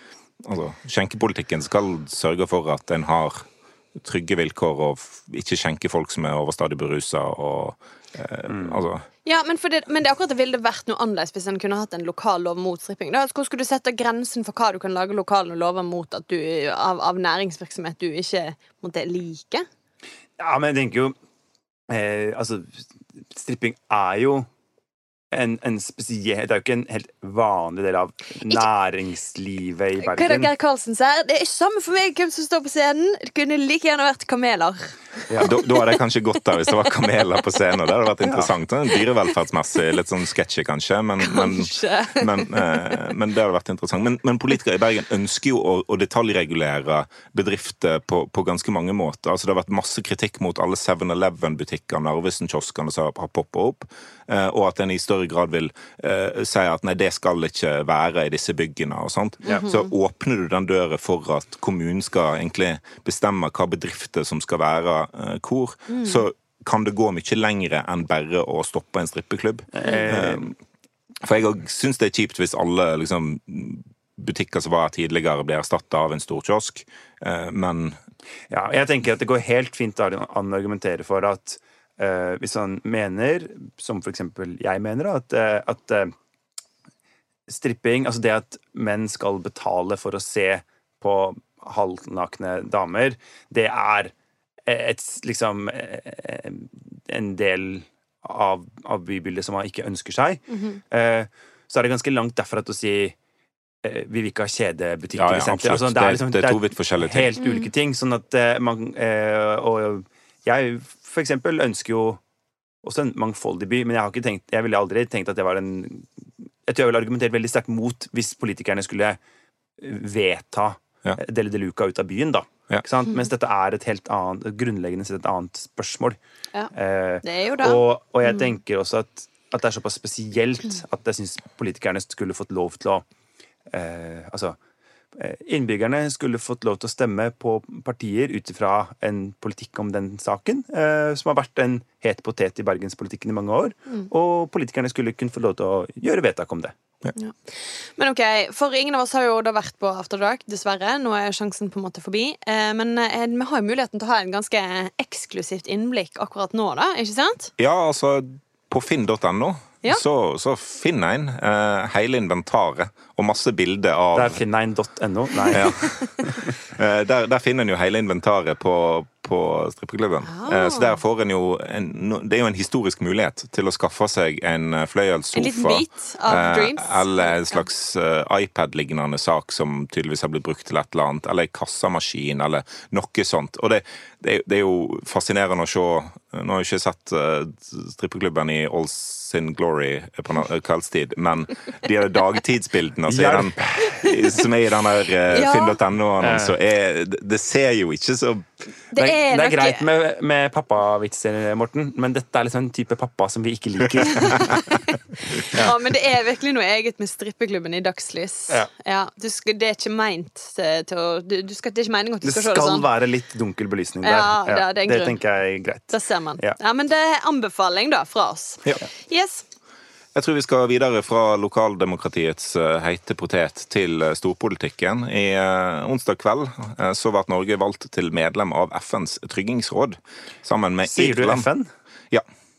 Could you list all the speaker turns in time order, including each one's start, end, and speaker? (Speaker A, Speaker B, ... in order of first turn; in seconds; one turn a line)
Speaker A: 0.4-9.1
Speaker B: 8.5-8.8
Speaker C: 9.2-19.6
Speaker B: 20.4-21.1
Speaker B: 21.9-24.5
Speaker B: 25.3-30.5
Speaker C: 30.0-35.8
Speaker A: 35.4-70.5
Speaker B: 38.2-38.5
Speaker C: 41.2-42.9
Speaker C: 59.5-59.9
Speaker C: 65.9-66.2
Speaker B: 69.7-70.5
Speaker A: 71.2-78.0
Speaker B: 78.5-86.1
Speaker B: 87.5-94.1
Speaker B: 94.6-103.2
Speaker C: 100.5-100.8
Speaker B: 103.8-112.2
Speaker A: 105.1-107.3
Speaker C: 107.4-107.7
Speaker B: 112.8-116.1
Speaker B: 116.7-119.2
Speaker B: 119.8-126.2
Speaker B: 126.7-133.0
Speaker C: 127.2-127.8
Speaker B: 133.7-134.6
Speaker B: 135.1-146.7
Speaker C: 147.2-157.5
Speaker A: 157.6-164.4
Speaker B: 164.1-166.5
Speaker C: 165.4-166.1
Speaker A: 165.5-165.9
Speaker A: 166.7-198.4
Speaker C: 170.2-171.0
Speaker C: 175.3-177.6
Speaker B: 193.1-194.1
Speaker C: 195.3-195.8
Speaker B: 196.2-196.6
Speaker C: 198.9-199.8
Speaker B: 198.9-204.6
Speaker C: 204.1-212.9
Speaker B: 212.2-216.6
Speaker C: 214.0-215.2
Speaker C: 215.9-219.4
Speaker A: 220.1-231.5
Speaker B: 230.8-231.7